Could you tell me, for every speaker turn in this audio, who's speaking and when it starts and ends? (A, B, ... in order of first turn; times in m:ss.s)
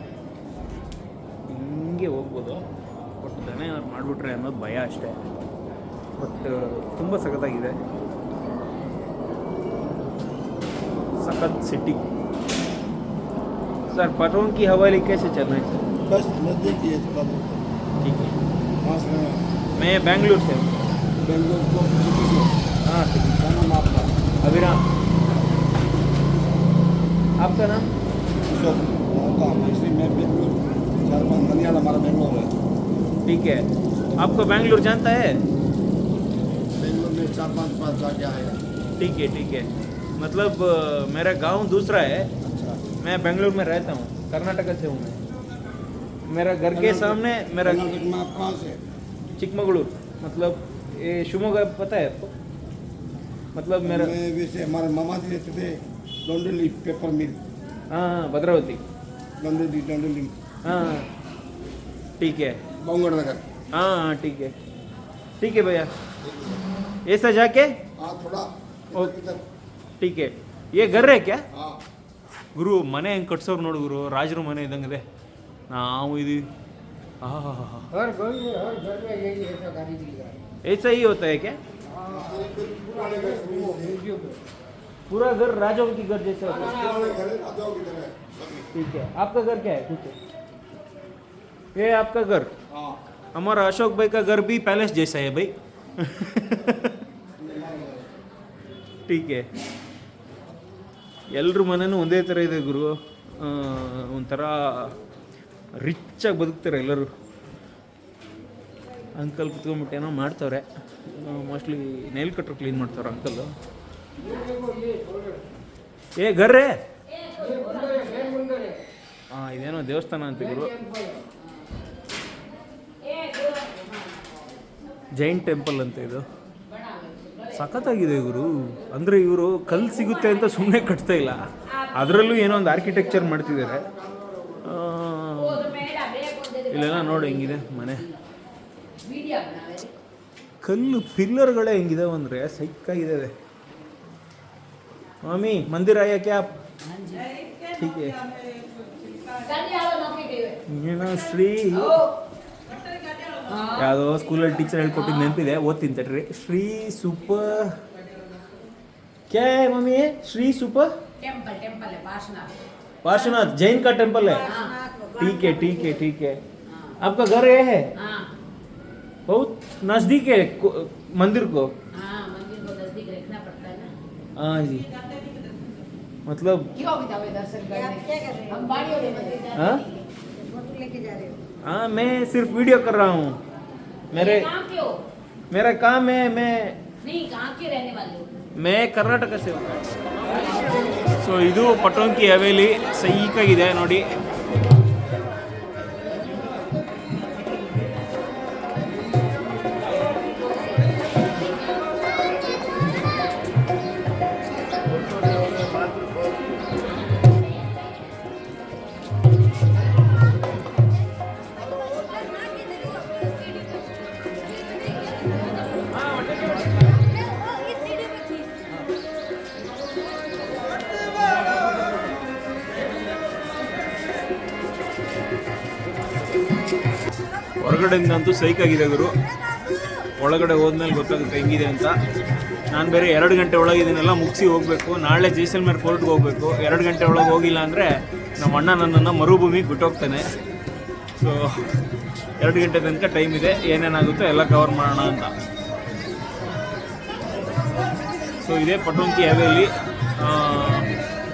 0:01.5-0:02.6 A
0:03.2-0:05.3 A
0:06.2-0:07.8 A
0:11.2-0:12.0 A
0:13.9-0:15.8 A
0:16.0-0:17.6 B
0:18.0-0:18.4 A
0:18.8-0:19.4 B
0:19.8-0:20.7 A
0:21.2-0:22.5 B
0:22.8-0:23.4 A
0:23.4-0:24.1 B
0:24.4-0:24.8 A
0:27.4-0:27.9 A
0:28.5-0:32.5 B
0:33.2-0:33.6 A
0:34.2-0:35.4 A
0:36.8-0:38.6 B
0:39.0-0:42.3 A
0:43.0-0:45.2 A
0:46.3-0:47.9 A
0:46.7-0:48.8 B
0:49.4-0:52.3 A
0:53.5-0:54.1 A
0:53.8-0:57.4 B
0:57.9-0:58.8 A
0:59.4-1:00.3 B
1:00.6-1:01.0 A
1:02.2-1:02.6 A
1:02.8-1:03.4 B
1:03.7-1:04.5 A
1:05.4-1:05.9 A
1:07.1-1:07.7 A
1:08.0-1:09.4 B
1:10.0-1:11.4 A
1:12.5-1:15.0 A
1:15.7-1:16.4 A
1:17.2-1:17.9 A
1:20.6-1:21.6 A
1:22.1-1:24.1 B
1:25.1-1:26.9 A
1:26.8-1:28.4 B
1:28.7-1:30.1 A
1:31.7-1:32.5 A
1:33.3-1:36.9 A
1:37.4-1:38.0 B
1:39.1-1:39.4 A
1:41.3-1:44.9 A
1:45.8-1:47.1 A
1:49.2-1:53.5 A
1:56.2-1:56.8 A
1:57.4-1:58.5 C
1:59.3-2:00.8 A
2:05.2-2:06.2 A
2:07.5-2:13.8 A
2:14.6-2:15.9 A
2:16.0-2:16.3 C
2:16.7-2:18.1 A
2:19.0-2:19.9 C
2:20.6-2:23.3 A
2:25.2-2:26.6 A
2:27.7-2:28.2 A
2:29.4-2:30.5 C
2:30.7-2:32.0 A
2:33.7-2:37.8 A
2:39.3-2:40.9 A
2:41.2-2:42.5 C
2:43.0-2:44.5 A
2:45.2-2:46.4 A
2:47.0-2:47.9 A
2:49.3-2:51.7 A
2:52.0-2:53.9 C
2:54.4-2:54.9 A
2:56.3-2:56.7 A
2:56.8-2:59.5 C
2:59.5-2:59.8 A
3:01.6-3:03.4 A
3:04.1-3:04.5 A
3:04.6-3:04.9 C
3:05.5-3:06.8 A
3:07.0-3:08.3 C
3:08.6-3:10.1 A
3:11.2-3:14.0 A
3:47.6-3:49.1 A
3:50.2-3:51.9 A
3:52.7-4:00.2 A
4:01.2-4:01.5 A
4:02.4-4:05.3 A
4:08.4-4:10.9 A